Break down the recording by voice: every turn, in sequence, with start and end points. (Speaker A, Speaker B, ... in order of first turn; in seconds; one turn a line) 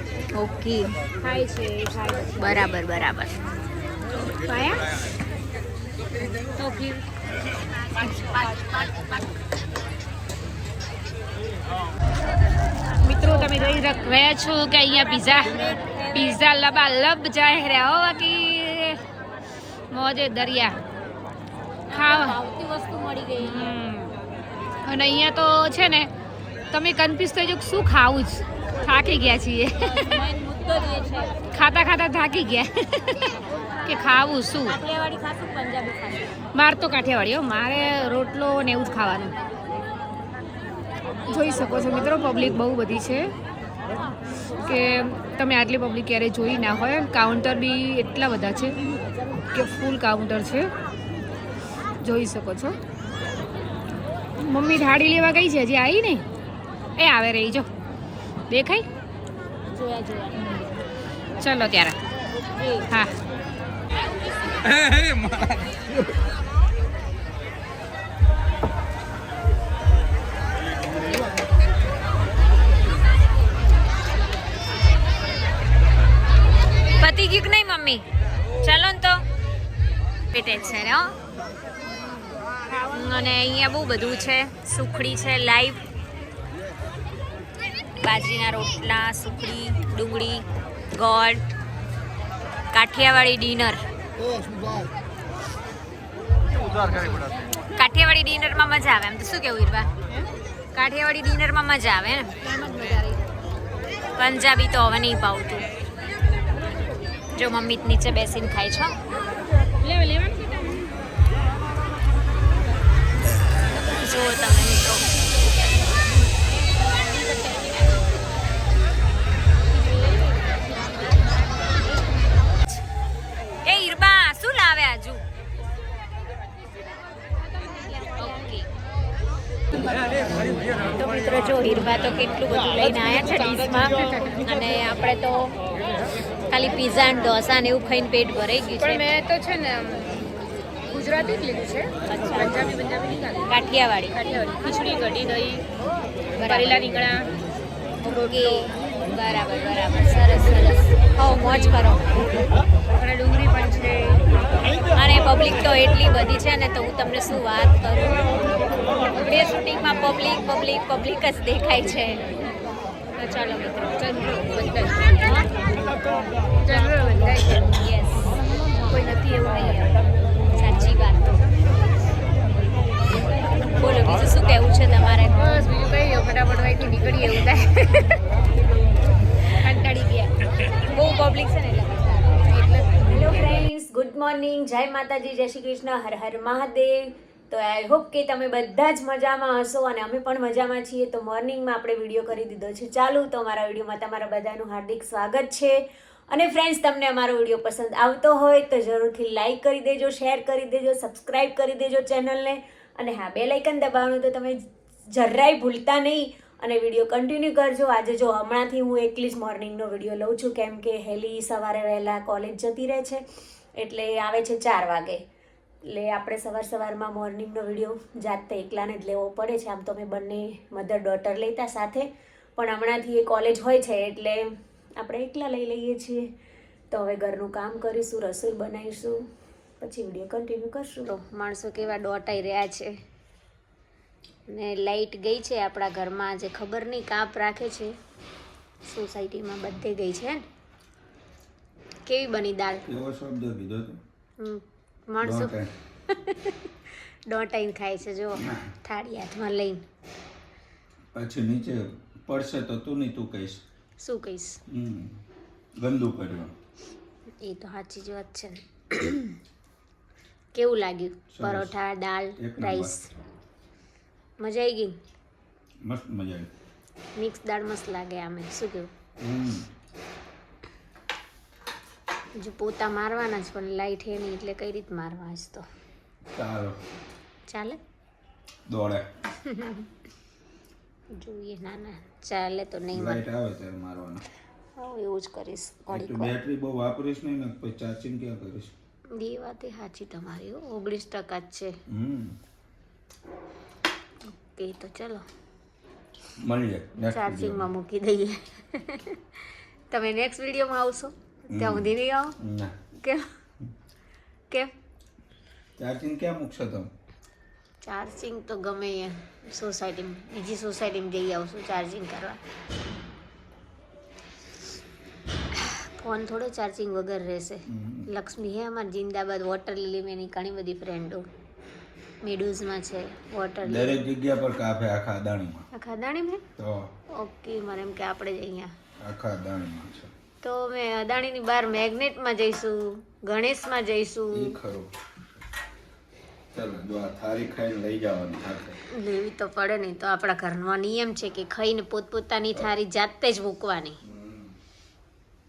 Speaker A: 0.3-1.0
Speaker B: 1.2-2.6
Speaker A: 2.4-3.4
Speaker B: 4.2-4.9
Speaker B: 6.5-7.0
Speaker B: 8.0-8.5
Speaker B: 13.0-19.0
Speaker B: 19.9-20.8
Speaker B: 21.9-22.4
Speaker A: 21.9-23.7
Speaker B: 23.4-24.2
Speaker B: 24.9-26.1
Speaker B: 26.7-30.4
Speaker A: 29.9-31.4
Speaker B: 31.3-34.8
Speaker A: 34.6-36.4
Speaker B: 36.5-39.4
Speaker B: 41.2-43.3
Speaker B: 44.6-48.8
Speaker B: 49.5-50.7
Speaker B: 52.0-52.8
Speaker B: 54.4-56.3
Speaker B: 57.0-57.7
Speaker B: 58.5-58.9
Speaker B: 59.8-60.7
Speaker B: 61.4-62.0
Speaker B: 62.7-63.2
Speaker A: 77.0-78.1
Speaker A: 78.6-79.2
Speaker A: 80.3-81.1
Speaker A: 82.9-85.8
Speaker A: 88.0-91.6
Speaker A: 92.7-93.8
Speaker B: 96.8-97.3
Speaker A: 97.8-99.9
Speaker A: 100.7-102.4
Speaker B: 102.4-103.2
Speaker A: 104.2-105.7
Speaker A: 107.3-109.0
Speaker B: 109.8-110.8
Speaker A: 113.8-115.1
Speaker B: 117.3-117.7
Speaker B: 120.0-120.4
Speaker A: 123.6-125.2
Speaker A: 128.2-128.7
Speaker A: 130.9-135.6
Speaker A: 136.5-139.1
Speaker B: 138.8-140.2
Speaker B: 140.9-143.5
Speaker A: 142.1-142.7
Speaker A: 143.5-144.2
Speaker B: 144.1-145.7
Speaker A: 146.4-146.8
Speaker B: 146.4-147.3
Speaker A: 148.0-152.2
Speaker B: 152.9-154.3
Speaker A: 154.9-158.4
Speaker A: 159.2-162.2
Speaker A: 163.2-163.8
Speaker B: 163.2-165.5
Speaker B: 166.6-167.7
Speaker A: 167.8-168.3
Speaker B: 168.8-170.0
Speaker A: 170.6-171.4
Speaker A: 173.8-175.5
Speaker B: 175.4-178.2
Speaker B: 179.5-180.7
Speaker A: 180.8-182.4
Speaker B: 182.5-183.2
Speaker A: 183.0-213.2
Speaker A: 213.8-215.2
Speaker A: 215.8-226.3
Speaker A: 226.9-229.3
Speaker A: 229.8-233.0
Speaker A: 234.5-237.9
Speaker A: 238.8-240.4
Speaker A: 242.1-242.8
Speaker C: 242.8-244.0
Speaker A: 244.4-245.6
Speaker C: 245.2-245.7
Speaker A: 246.1-246.6
Speaker A: 247.3-249.8
Speaker C: 251.1-253.6
Speaker A: 254.0-254.6
Speaker C: 254.7-255.2
Speaker C: 255.8-256.5
Speaker A: 257.4-259.4
Speaker A: 260.6-263.1
Speaker C: 261.3-261.7
Speaker C: 262.4-263.0
Speaker A: 264.4-265.0
Speaker C: 265.9-266.5
Speaker A: 267.2-268.9
Speaker C: 269.2-269.7
Speaker A: 272.4-275.7
Speaker C: 276.3-276.8
Speaker A: 277.5-277.8
Speaker C: 278.7-279.1
Speaker A: 279.4-279.9
Speaker A: 281.2-283.2
Speaker C: 282.9-284.2
Speaker A: 284.8-286.4
Speaker C: 285.9-288.7
Speaker A: 289.1-291.8
Speaker C: 291.9-292.4
Speaker A: 294.3-295.3
Speaker C: 296.4-297.7
Speaker A: 297.1-299.2
Speaker A: 299.9-302.4
Speaker C: 301.5-302.7
Speaker A: 303.0-303.3
Speaker C: 305.8-306.9
Speaker A: 307.8-312.4
Speaker A: 315.5-321.2
Speaker C: 317.7-318.1
Speaker A: 322.2-324.0
Speaker C: 323.6-325.7
Speaker A: 325.7-326.4
Speaker C: 326.6-326.9
Speaker A: 327.1-328.7
Speaker C: 329.0-330.1
Speaker A: 330.4-334.6
Speaker C: 334.3-334.9
Speaker C: 336.5-338.8
Speaker A: 338.9-344.0
Speaker C: 344.0-344.6